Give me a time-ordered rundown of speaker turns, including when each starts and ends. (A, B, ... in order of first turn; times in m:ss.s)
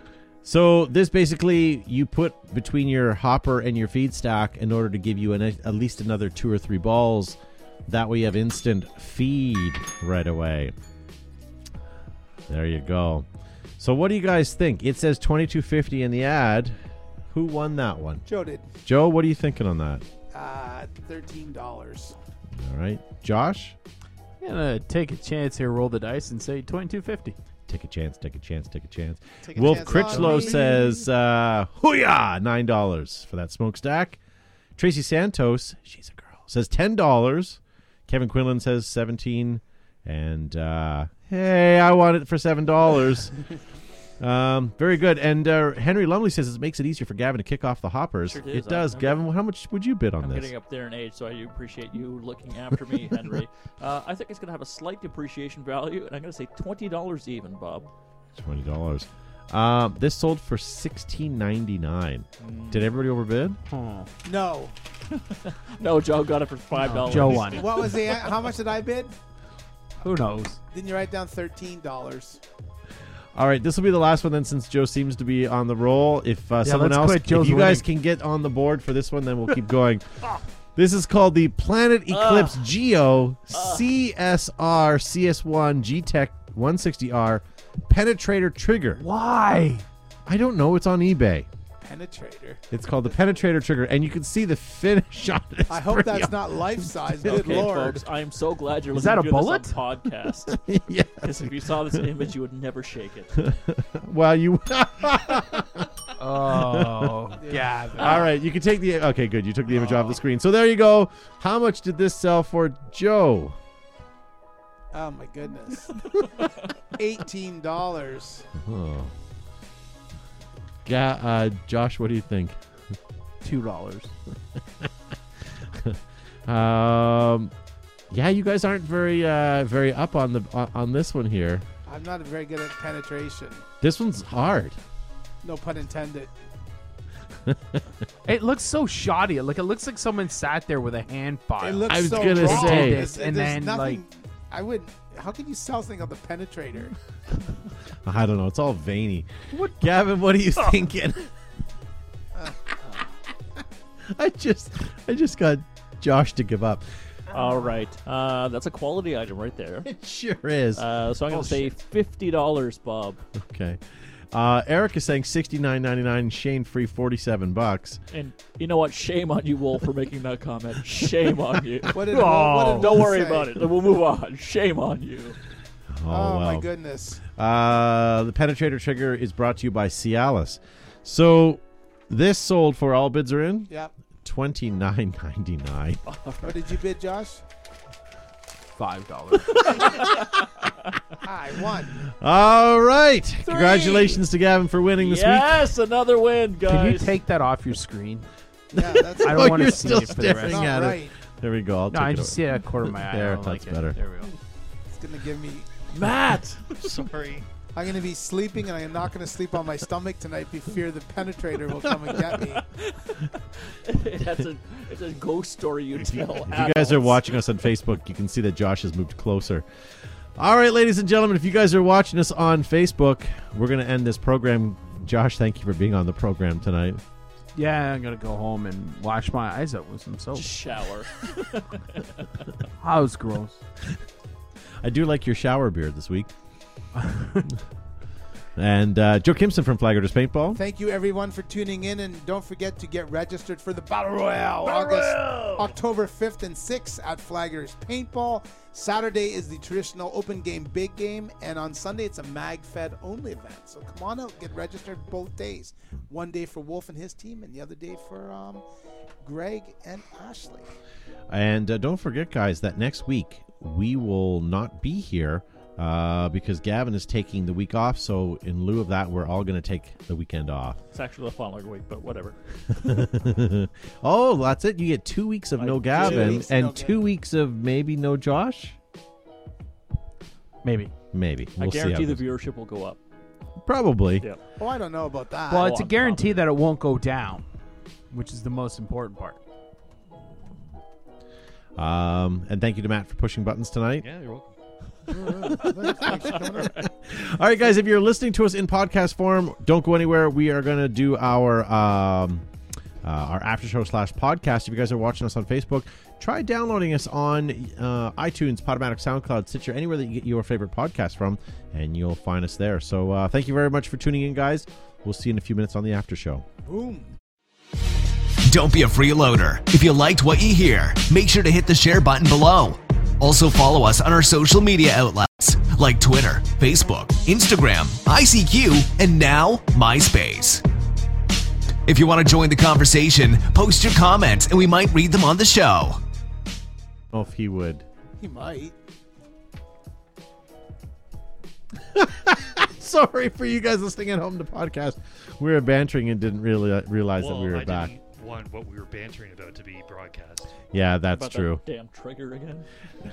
0:00.4-0:10.7 A
0:12.5-0:13.2 A
0:13.8-0:16.8 A
0:17.3-0:18.2 A
0:18.2-0:18.7 B
0:18.8-0:20.0 A
0:20.3-0:22.2 B
0:22.5-0:23.8 A
0:24.4-0:27.4 C
0:27.7-0:34.2 A
0:29.4-0:31.1 B
0:29.8-0:30.6 C
0:34.8-0:43.4 A
0:44.2-0:50.5 A
0:48.3-0:49.3 D
0:50.2-0:57.9 D
0:58.3-1:03.6 A
1:02.4-1:02.9 D
1:03.7-1:04.1 C
1:04.2-1:04.7 B
1:05.1-1:08.3 D
1:06.8-1:07.7 C
1:07.3-1:09.2 B
1:10.0-1:10.6 C
1:10.7-1:12.4 B
1:13.3-1:20.2 A
1:16.6-1:17.8 C
1:20.8-1:29.0 A
1:22.1-1:22.7 D
1:23.5-1:23.9 D
1:29.0-1:29.8 C
1:30.2-1:31.5 A
1:31.8-1:32.6 B
1:32.7-1:36.7 A
1:35.7-1:38.0 B
1:37.2-1:40.6 D
1:38.9-1:39.8 C
1:40.5-1:42.0 A
1:41.2-1:43.4 D
1:43.4-1:45.9 A
1:46.2-1:48.3 C
1:46.5-1:47.1 A
1:47.4-1:48.3 B
1:48.0-1:53.6 A
1:54.9-1:56.0 B
1:56.9-1:58.5 B
1:58.5-1:59.1 A
2:00.8-2:02.6 A
2:03.4-2:04.1 C
2:05.7-2:07.5 A
2:08.1-2:11.6 A
2:11.8-2:13.6 B
2:13.8-2:14.8 A
2:15.4-2:16.3 B
2:17.5-2:17.8 A
2:18.2-2:24.0 C
2:21.6-2:26.9 B
2:21.9-2:23.0 A
2:28.0-2:31.3 A
2:34.1-2:36.8 A
2:37.3-2:39.9 D
2:39.8-2:40.8 A
2:40.7-2:43.2 D
2:41.3-2:41.7 C
2:43.3-2:48.0 A
2:48.1-2:55.4 D
2:51.9-2:53.6 B
2:55.9-2:56.7 A
2:56.1-2:57.2 B
2:57.3-3:03.7 A
3:04.2-3:06.0 A
3:06.0-3:06.6 D
3:06.4-3:07.4 B
3:08.8-3:09.9 C
3:09.6-3:10.7 D
3:11.2-3:12.0 B
3:12.0-3:15.6 A
3:13.4-3:14.2 D
3:15.0-3:17.2 D
3:16.7-3:18.3 C
3:18.7-3:21.1 B
3:18.8-3:24.0 A
3:19.2-3:20.7 C
3:21.9-3:24.3 C
3:24.9-3:25.7 B
3:25.9-3:27.0 A
3:26.7-3:27.5 E
3:27.7-3:32.6 B
3:32.7-3:37.4 D
3:36.1-3:39.6 A
3:40.4-3:47.0 A
3:47.5-3:50.6 C
3:50.3-3:52.2 D
3:52.8-3:53.6 C
3:54.8-3:56.3 A
3:57.0-3:57.5 C
3:58.6-4:00.6 A
4:00.5-4:18.6 B
4:04.6-4:05.7 D
4:19.2-4:20.7 B
4:21.3-4:30.8 A
4:30.9-4:33.0 D
4:32.8-4:38.8 A
4:35.6-4:36.5 D
4:35.9-4:37.0 B
4:40.6-4:40.9 C
4:41.1-4:42.2 A
4:41.6-4:43.0 D
4:43.6-4:44.3 A
4:44.6-4:45.8 B
4:45.5-4:47.4 C
4:45.5-4:46.3 D
4:48.1-4:49.4 C
4:51.8-4:54.1 A
4:54.0-4:54.5 E
4:55.1-4:56.8 B
4:55.2-4:56.1 A
4:56.0-4:56.9 D
4:56.8-5:02.5 A
5:03.0-5:16.4 A
5:16.6-5:17.1 B
5:18.5-5:30.6 F
5:31.8-5:36.0 F
5:37.1-5:37.8 A
5:38.2-5:38.7 B
5:41.9-5:47.9 A
5:47.2-5:50.6 E
5:50.7-5:51.6 A
5:51.1-5:52.7 D